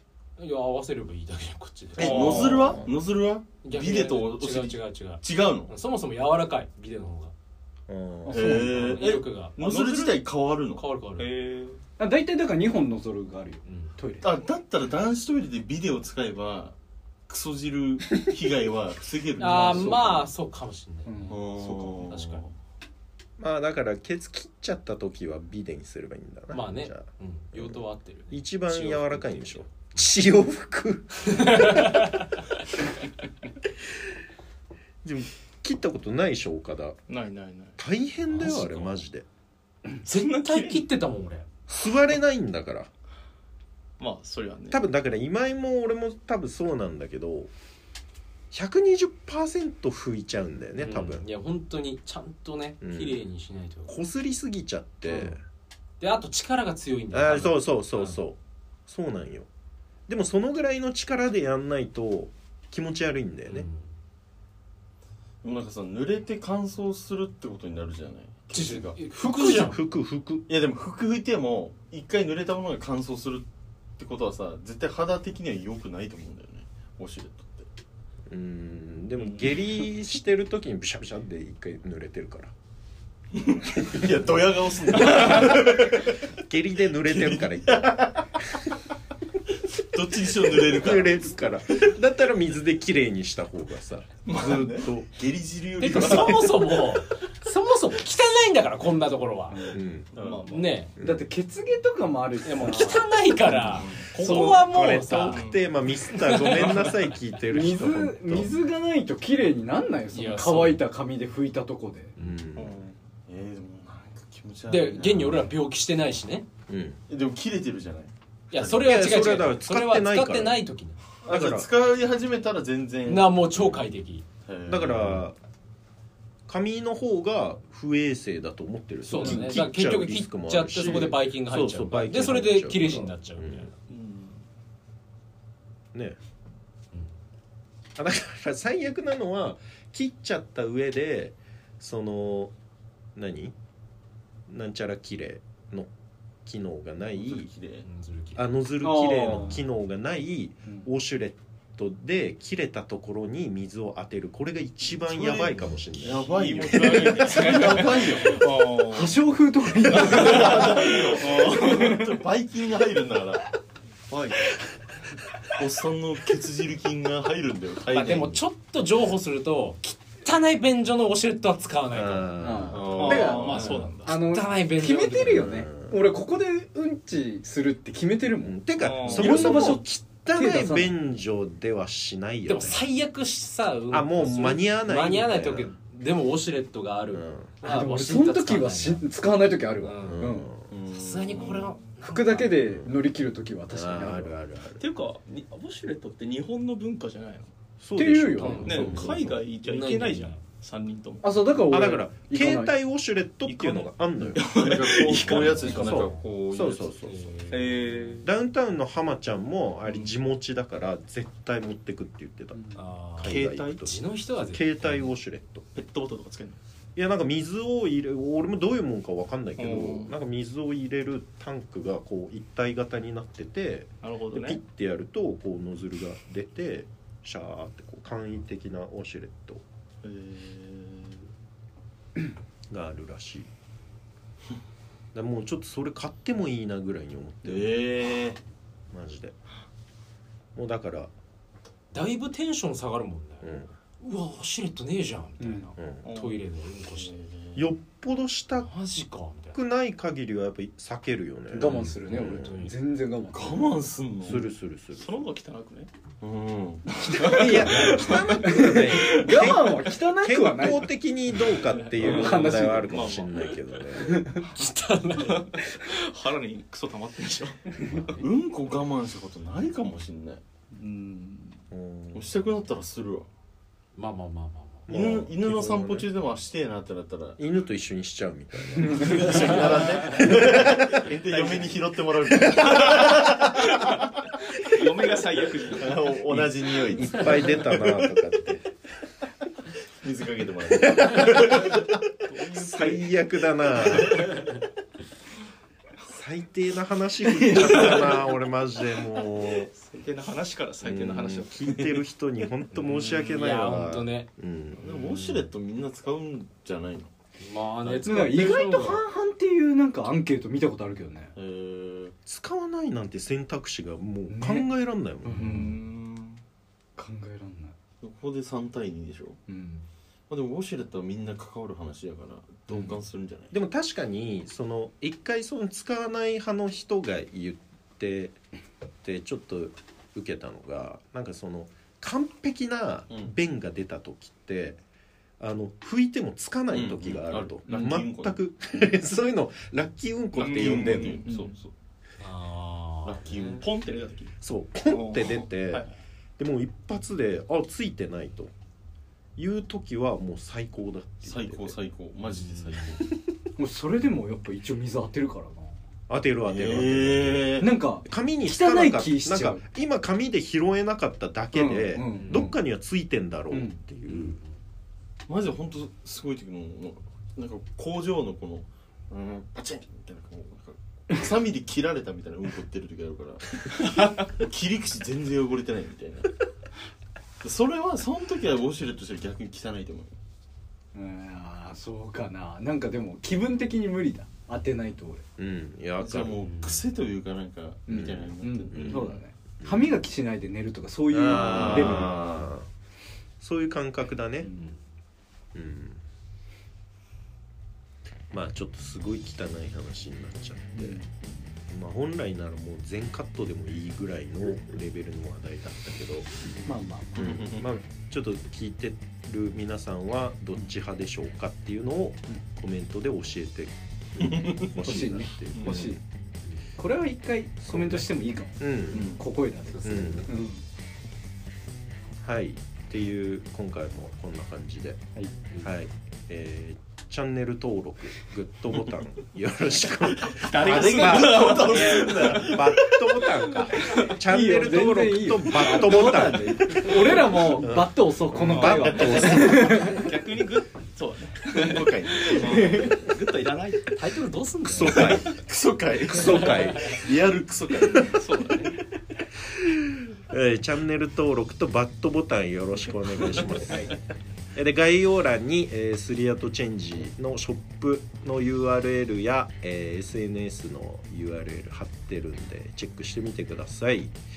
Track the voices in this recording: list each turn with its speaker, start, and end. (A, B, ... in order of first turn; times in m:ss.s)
0:00.4-0:02.7 A
0:02.0-0:05.7 B
0:02.0-0:02.8 C
0:02.3-0:02.9 D
0:03.6-0:07.3 A
0:07.9-0:08.6 D
0:08.2-0:09.0 E
0:08.3-0:10.8 B
0:08.6-0:09.6 A
0:09.6-0:10.2 C
0:10.8-0:11.3 A
0:11.2-0:11.8 C
0:12.0-0:14.4 E
0:13.6-0:13.9 A
0:14.2-0:16.8 B
0:17.3-0:20.1 B
0:19.4-0:22.4 A
0:19.4-0:20.3 E
0:21.0-0:21.8 E
0:21.3-0:22.5 B
0:23.4-0:32.0 D
0:26.5-0:30.1 A
0:31.3-0:32.4 A
0:35.0-0:37.0 D
0:37.1-0:37.8 C
0:37.8-0:39.2 D
0:38.3-0:39.0 A
0:40.0-0:41.5 A
0:40.1-0:40.8 C
0:41.7-0:42.9 D
0:44.0-0:44.8 C
0:44.7-0:47.5 D
0:48.5-0:51.3 D
0:50.8-0:54.0 A
0:52.8-0:53.2 D
0:53.9-0:55.4 D
0:55.1-0:55.3 A
0:56.0-0:58.2 A
0:57.1-0:59.5 D
1:00.1-1:03.6 D
1:03.5-1:03.9 A
1:05.4-1:09.0 B
1:08.5-1:09.8 A
1:09.1-1:10.4 D
1:10.5-1:17.7 B
1:18.3-1:22.5 D
1:23.5-1:26.3 B
1:26.4-1:28.6 D
1:27.0-1:28.2 B
1:29.7-1:31.3 B
1:30.4-1:35.1 D
1:34.2-1:34.9 C
1:34.3-1:36.8 B
1:35.8-1:39.7 A
1:39.7-1:40.1 D
1:40.1-1:40.9 C
1:40.2-1:40.5 B
1:40.5-1:40.9 A
1:41.0-1:43.1 E
1:42.4-1:45.5 A
1:43.6-1:44.1 B
1:44.1-1:45.6 C
1:44.2-1:48.5 D
1:46.1-1:47.0 A
1:46.5-1:46.9 C
1:47.5-1:52.2 E
1:50.1-1:50.8 A
1:52.2-1:52.8 D
1:52.6-1:55.5 B
1:52.6-1:52.9 C
1:54.7-1:56.4 A
1:56.7-1:57.0 D
1:57.1-1:59.0 B
1:58.5-2:01.0 A
1:58.8-2:00.6 D
2:01.2-2:03.6 B
2:01.3-2:01.7 D
2:03.1-2:04.2 A
2:04.4-2:05.2 B
2:04.6-2:05.4 D
2:06.5-2:13.7 D
2:09.0-2:13.7 A
2:09.2-2:09.5 E
2:13.9-2:14.4 C
2:18.0-2:22.5 D
2:23.1-2:23.5 D
2:24.5-2:25.9 D
2:26.4-2:27.5 D
2:27.2-2:27.8 B
2:27.8-2:28.5 A
2:28.4-2:37.5 D
2:28.8-2:29.6 E
2:35.0-2:38.4 B
2:35.3-2:36.2 A
2:36.3-2:39.2 C
2:37.3-2:38.1 E
2:38.9-2:42.0 E
2:40.0-2:43.6 B
2:40.0-2:42.0 C
2:44.1-2:44.6 B
2:45.5-2:48.4 B
2:47.9-2:52.3 A
2:51.9-2:53.4 D
2:52.4-2:58.6 E
2:52.7-2:53.7 B
2:52.9-2:54.1 C
2:53.2-2:55.6 A
2:55.2-2:56.0 D
2:58.4-3:02.8 D
2:58.8-2:59.6 C
2:59.1-3:00.9 E
3:02.4-3:09.1 A
3:03.9-3:05.7 D
3:07.1-3:07.5 D
3:07.6-3:10.5 E
3:09.8-3:10.3 A
3:10.0-3:10.7 D
3:10.7-3:11.8 B
3:10.9-3:12.8 A
3:12.0-3:14.3 E
3:13.7-3:14.8 D
3:14.8-3:17.5 C
3:17.8-3:19.4 D
3:18.0-3:18.9 E
3:18.4-3:20.4 A
3:18.4-3:21.4 C
3:21.2-3:22.7 E
3:21.7-3:24.4 D
3:23.4-3:25.9 C
3:24.4-3:27.0 B
3:25.1-3:26.2 A
3:25.7-3:27.3 D
3:27.0-3:28.2 A
3:27.5-3:28.3 C
3:28.2-3:35.6 D
3:32.5-3:32.8 E
3:32.7-3:35.1 A
3:33.2-3:33.8 C
3:35.7-3:36.6 C
3:37.0-3:49.6 D
3:39.6-3:40.1 C
3:44.0-3:44.6 C
3:50.0-3:51.2 B
3:52.7-3:53.5 D
3:55.1-3:57.8 D
3:57.4-3:58.4 B
3:58.9-3:59.4 D
4:00.5-4:01.1 D
4:01.9-4:07.2 A
4:03.4-4:03.7 D
4:05.4-4:05.7 E
4:05.8-4:06.0 D
4:06.0-4:06.4 C
4:06.9-4:07.6 B
4:07.6-4:08.7 D
4:08.6-4:09.6 A
4:09.5-4:12.7 D
4:11.5-4:13.7 E
4:11.6-4:12.8 A
4:13.3-4:14.4 B
4:14.2-4:15.2 D
4:14.9-4:15.9 C
4:16.2-4:16.9 B
4:16.9-4:19.5 C
4:17.1-4:20.9 E
4:17.3-4:24.2 D
4:17.9-4:18.2 A
4:21.5-4:23.8 C
4:22.0-4:23.1 E
4:24.0-4:24.5 E
4:24.5-4:25.6 A
4:25.1-4:27.9 C
4:27.8-4:28.2 A
4:28.1-4:30.4 B
4:30.7-4:31.6 C
4:31.7-4:32.3 D
4:32.1-4:33.3 B
4:34.0-4:34.9 A
4:34.9-4:36.1 D
4:34.9-4:37.4 B
4:37.4-4:41.1 D
4:38.8-4:43.5 B
4:41.3-4:41.7 C
4:42.4-4:43.1 C
4:42.5-4:43.7 D
4:44.6-4:46.0 C
4:45.6-4:47.6 B
4:46.9-4:48.6 D
4:50.0-4:51.8 B
4:50.8-4:51.8 D
4:52.2-4:53.2 C
4:52.5-4:54.3 D
4:53.8-4:54.4 C
4:56.1-4:59.7 D
4:59.6-5:02.0 C
5:00.8-5:05.0 D
5:02.8-5:03.3 C
5:03.2-5:04.3 A
5:04.8-5:07.1 B
5:05.1-5:05.5 A
5:07.4-5:09.0 A
5:07.8-5:08.6 B
5:08.0-5:11.3 E
5:11.4-5:12.1 B
5:12.2-5:15.6 D
5:14.3-5:14.7 E
5:15.2-5:15.8 E
5:15.4-5:16.4 C
5:17.0-5:17.7 E
5:18.0-5:19.4 B
5:19.5-5:19.9 E
5:20.3-5:23.5 B
5:23.5-5:28.4 D
5:29.0-5:34.8 D
5:35.4-5:41.2 D
5:36.7-5:38.4 B
5:40.4-5:41.5 C
5:40.4-5:41.7 B
5:42.2-5:43.6 A
5:43.0-5:43.7 B
5:43.6-5:44.3 C
5:44.4-5:45.9 D
5:44.9-5:45.9 C
5:46.4-5:48.5 D
5:49.4-5:51.7 D
5:51.2-5:53.0 B
5:52.2-5:53.0 A
5:53.6-5:55.8 E
5:56.1-6:04.4 D
5:56.4-5:57.8 B
5:57.6-5:59.6 E
6:01.5-6:02.6 E
6:02.1-6:02.4 A
6:03.5-6:03.8 E
6:04.1-6:04.4 A
6:05.3-6:16.4 B
6:13.8-6:14.1 C
6:17.4-6:20.2 B
6:20.9-6:25.2 E
6:25.4-6:26.4 D
6:26.0-6:29.2 B
6:26.4-6:26.8 A
6:27.9-6:32.4 E
6:28.7-6:29.9 D
6:31.1-6:32.7 D
6:31.4-6:32.5 B
6:33.4-6:34.5 D
6:34.4-6:34.7 C
6:35.5-6:36.0 D
6:38.3-6:41.0 D
6:41.1-6:41.4 C
6:41.7-6:46.3 D
6:46.6-6:47.4 E
6:47.1-6:56.0 D
6:47.2-6:47.6 B
6:54.2-6:54.7 B
6:54.8-6:56.0 E
6:56.8-7:00.6 E
6:57.6-6:59.2 D
6:58.9-6:59.2 B
6:59.8-7:00.3 D
6:59.9-7:00.2 A
7:02.2-7:05.0 D
7:05.6-7:16.9 D
7:10.2-7:13.3 C
7:10.4-7:12.6 B
7:13.9-7:20.1 E
7:17.5-7:19.8 D
7:18.4-7:24.0 C
7:21.5-7:22.8 B
7:22.4-7:23.1 E
7:23.9-7:25.2 A
7:24.6-7:25.3 D
7:24.9-7:28.4 B
7:26.0-7:27.0 D
7:28.2-7:28.8 C
7:29.5-7:34.0 D
7:34.5-7:44.1 D